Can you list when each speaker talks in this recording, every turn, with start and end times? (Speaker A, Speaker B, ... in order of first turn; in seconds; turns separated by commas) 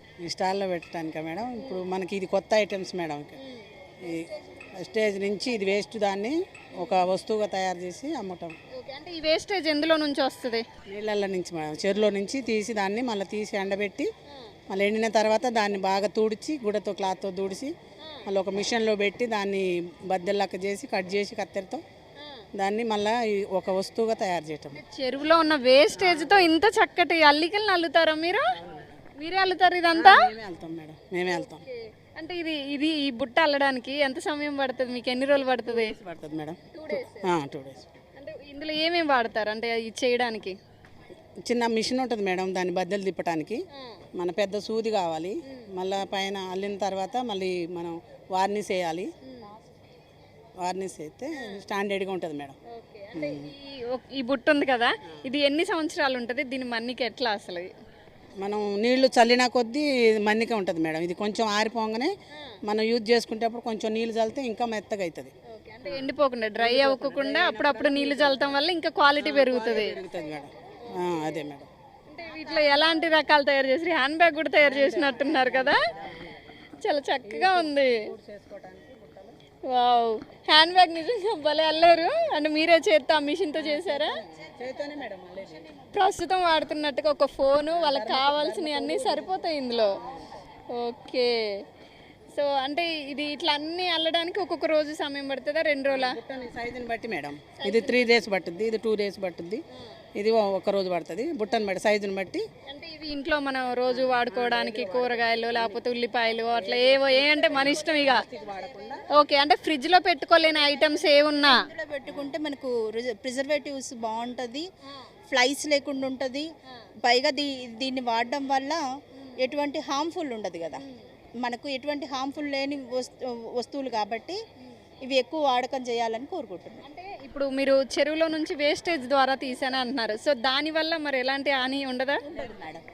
Speaker A: 0.2-3.4, Speaker B: 1.6-1.9, Speaker B: 3.4-3.7, Speaker A: 4.0-8.5, Speaker B: 8.7-10.6, Speaker A: 10.9-14.1, Speaker A: 14.7-17.7, Speaker B: 18.0-18.2, Speaker A: 18.2-21.8, Speaker B: 22.2-22.4, Speaker A: 22.5-24.8, Speaker B: 24.7-28.6, Speaker A: 25.9-26.5, Speaker A: 28.5-29.0, Speaker B: 29.1-30.2, Speaker A: 29.9-31.6, Speaker B: 31.2-36.0, Speaker A: 35.6-37.9, Speaker B: 36.7-37.3, Speaker B: 38.1-40.6, Speaker A: 41.4-43.6, Speaker B: 43.8-44.0, Speaker A: 44.1-49.1, Speaker B: 49.2-49.5, Speaker A: 50.6-52.5, Speaker B: 51.3-51.6, Speaker B: 52.7-57.7, Speaker A: 53.1-53.5, Speaker A: 58.4-62.1, Speaker B: 62.3-62.6, Speaker A: 62.6-65.3, Speaker B: 65.5-70.0, Speaker A: 65.8-68.6, Speaker A: 69.2-71.7, Speaker B: 72.1-75.8, Speaker A: 74.6-76.4, Speaker B: 76.8-78.1, Speaker A: 77.2-79.3, Speaker B: 79.7-84.2, Speaker A: 83.6-85.7, Speaker B: 85.9-90.0, Speaker A: 87.7-89.4, Speaker B: 90.7-91.3, Speaker B: 92.3-96.2, Speaker A: 95.9-99.6, Speaker B: 97.6-98.3, Speaker A: 100.1-102.5, Speaker B: 102.7-108.2, Speaker A: 103.9-105.8, Speaker A: 106.5-109.0, Speaker C: 107.7-108.5, Speaker B: 109.1-111.6, Speaker C: 110.6-114.7, Speaker A: 112.0-112.3, Speaker C: 115.3-116.5, Speaker C: 117.0-118.8, Speaker C: 119.4-120.8, Speaker C: 121.4-124.4, Speaker C: 125.0-126.8, Speaker B: 126.8-132.2, Speaker C: 132.2-132.8